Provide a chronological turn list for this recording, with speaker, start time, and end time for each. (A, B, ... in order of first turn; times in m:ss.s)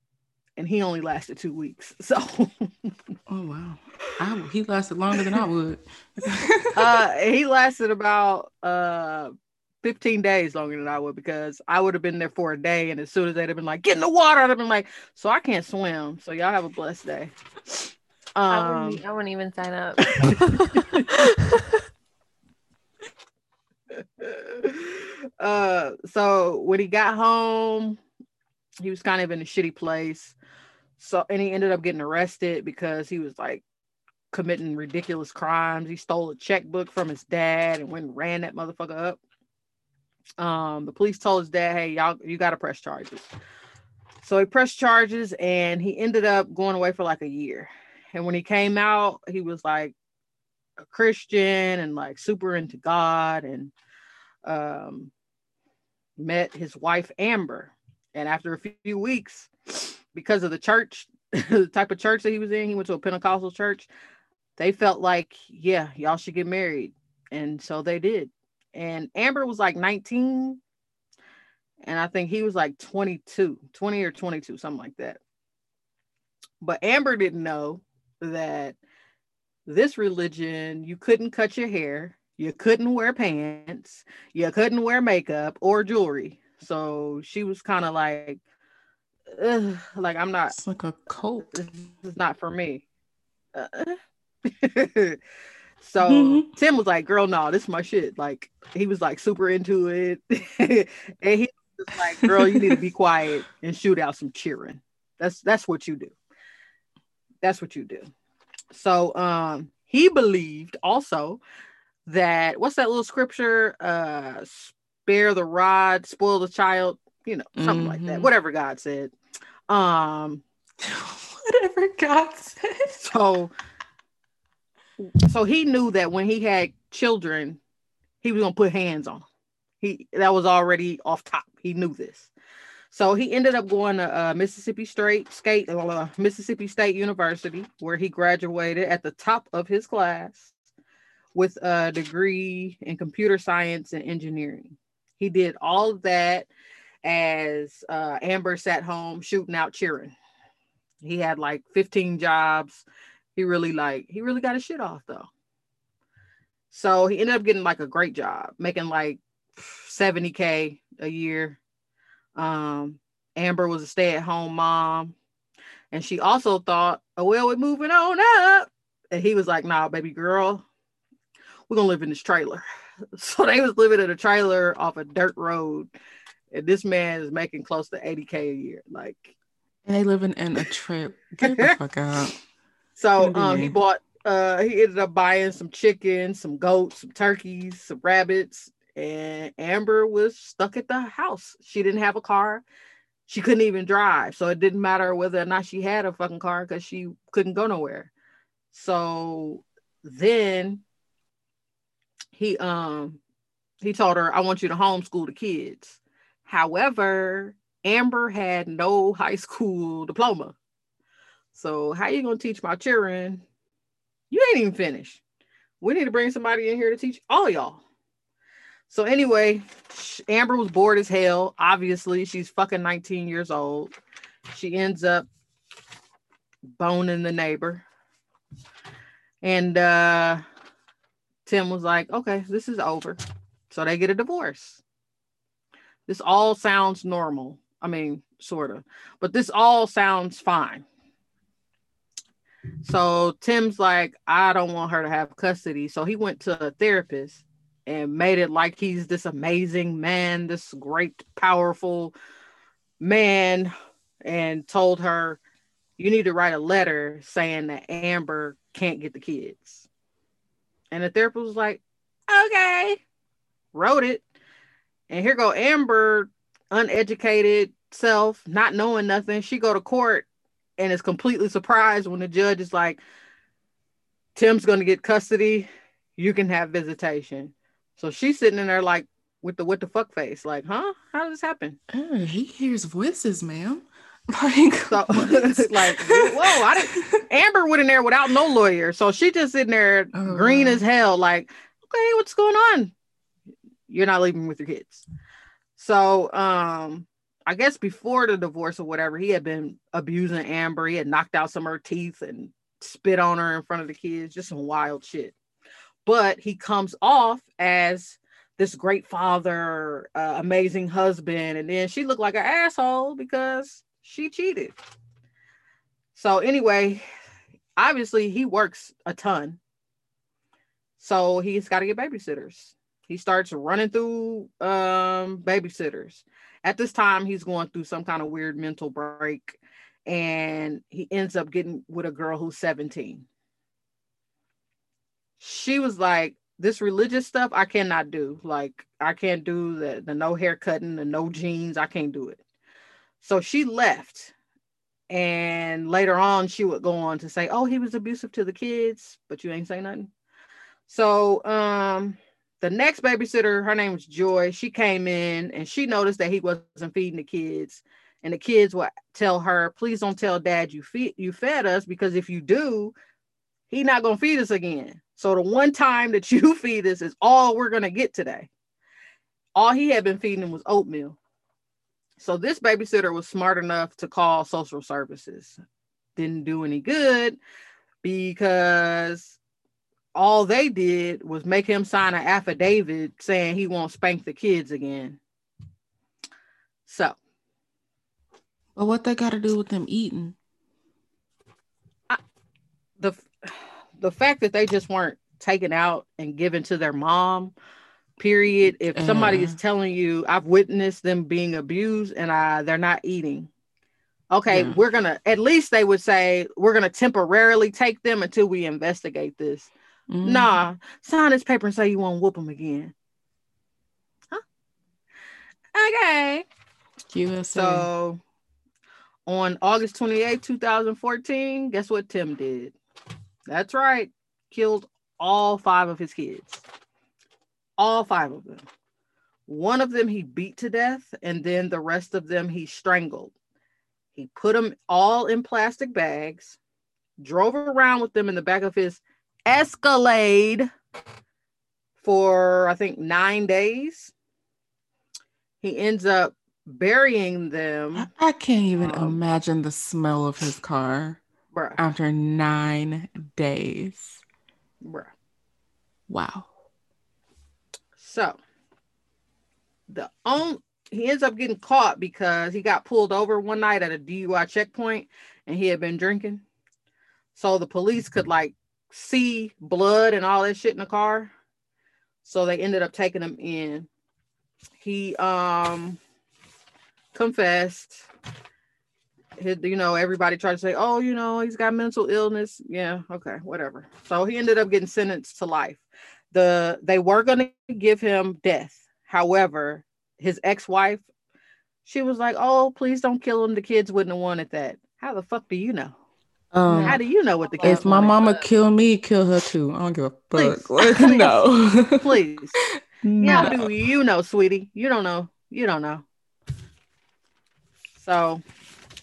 0:00.6-0:02.9 A
0:03.3-0:06.8 B
0:06.8-0:19.0 A
0:18.5-0:21.8 C
0:20.1-0:21.1 A
0:23.9-0:28.0 A
0:28.8-0:30.4 A
0:31.0-0:33.6 A
0:34.3-0:39.2 A
0:40.4-0:43.3 A
0:44.2-0:49.9 A
0:50.8-0:53.7 A
0:54.4-0:55.1 A
0:56.2-1:03.9 A
1:04.6-1:10.6 A
1:11.8-1:15.2 A
1:16.6-1:18.8 A
1:19.7-1:28.4 A
1:29.3-1:30.5 A
1:30.5-1:31.6 B
1:31.4-1:32.8 A
1:33.5-1:35.2 A
1:35.8-1:46.1 A
1:36.0-1:36.5 B
1:42.2-1:42.8 B
1:47.4-1:48.1 A
1:48.7-1:51.4 A
1:52.1-1:59.1 A
1:57.6-1:58.3 B
1:59.7-2:00.4 A
2:00.8-2:03.0 B
2:03.0-2:03.5 A
2:05.0-2:07.6 A
2:08.2-2:09.2 A
2:09.8-2:12.3 A
2:12.9-2:20.5 A
2:21.3-2:26.5 A
2:27.0-2:30.1 A
2:31.0-2:32.8 A
2:33.4-2:35.3 A
2:36.7-2:41.6 A
2:42.4-2:45.1 A
2:45.9-2:50.6 A
2:51.7-2:55.9 A
2:56.5-2:59.3 A
2:59.8-3:02.4 B
3:01.4-3:01.7 A
3:03.0-3:12.6 A
3:03.2-3:03.8 B
3:13.3-3:18.1 A
3:18.7-3:20.8 A
3:22.3-3:23.2 A
3:23.8-3:30.6 A
3:31.5-3:33.4 A
3:34.3-3:35.2 A
3:35.8-3:37.8 A
3:38.9-3:43.9 A
3:44.5-3:45.3 A
3:46.8-3:47.8 A
3:49.4-3:50.4 A
3:51.4-3:54.8 A
3:56.1-4:00.8 A
4:02.8-4:12.1 A
4:13.0-4:13.7 A
4:14.2-4:15.4 A
4:16.0-4:19.8 A
4:20.9-4:23.0 A
4:23.7-4:24.2 A
4:25.1-4:30.3 A
4:30.8-4:33.0 A
4:34.3-4:41.8 A
4:41.9-4:47.2 B
4:44.9-4:52.9 A
4:50.1-4:50.8 B
4:53.9-4:55.0 A
4:55.8-5:05.3 A
5:06.0-5:14.8 A
5:16.1-5:17.0 A
5:17.8-5:19.6 A
5:21.0-5:33.2 A
5:35.4-5:42.4 A
5:43.2-5:44.3 A
5:45.1-5:50.1 A
5:50.9-6:02.9 A
6:03.7-6:08.5 A
6:09.6-6:11.2 A
6:12.2-6:15.6 A
6:16.2-6:17.4 A
6:18.0-6:19.4 A
6:20.1-6:25.2 A
6:26.8-6:27.2 A
6:28.8-6:30.4 B
6:33.0-6:37.5 A
6:38.2-6:43.5 A
6:38.9-6:39.6 B
6:44.3-6:49.7 A
6:44.5-6:44.8 B
6:50.1-6:50.6 B
6:50.2-6:52.9 A
6:55.7-6:56.4 A
6:57.1-6:57.9 B
6:57.5-6:58.2 A
6:59.3-7:02.8 A
7:03.5-7:06.6 A
7:07.8-7:08.6 A
7:09.5-7:13.3 A
7:14.2-7:16.6 A
7:17.2-7:20.7 A
7:22.0-7:24.1 A
7:25.6-7:28.1 A
7:28.0-7:31.2 B
7:28.8-7:29.2 A
7:31.5-7:31.8 A
7:31.8-7:34.2 B
7:34.8-7:35.1 A
7:36.1-7:36.5 B
7:38.0-7:38.4 A
7:39.9-7:46.4 A
7:47.3-7:51.3 A
7:52.2-7:53.9 A
7:54.8-7:56.0 A
7:57.1-7:58.1 A
7:59.4-8:11.0 A
8:11.8-8:15.9 A
8:16.5-8:17.0 B
8:16.6-8:17.0 C
8:16.8-8:18.2 A
8:17.5-8:18.4 C
8:17.6-8:23.7 B
8:20.4-8:22.6 A
8:23.2-8:26.0 A
8:23.2-8:23.6 C
8:28.0-8:28.4 A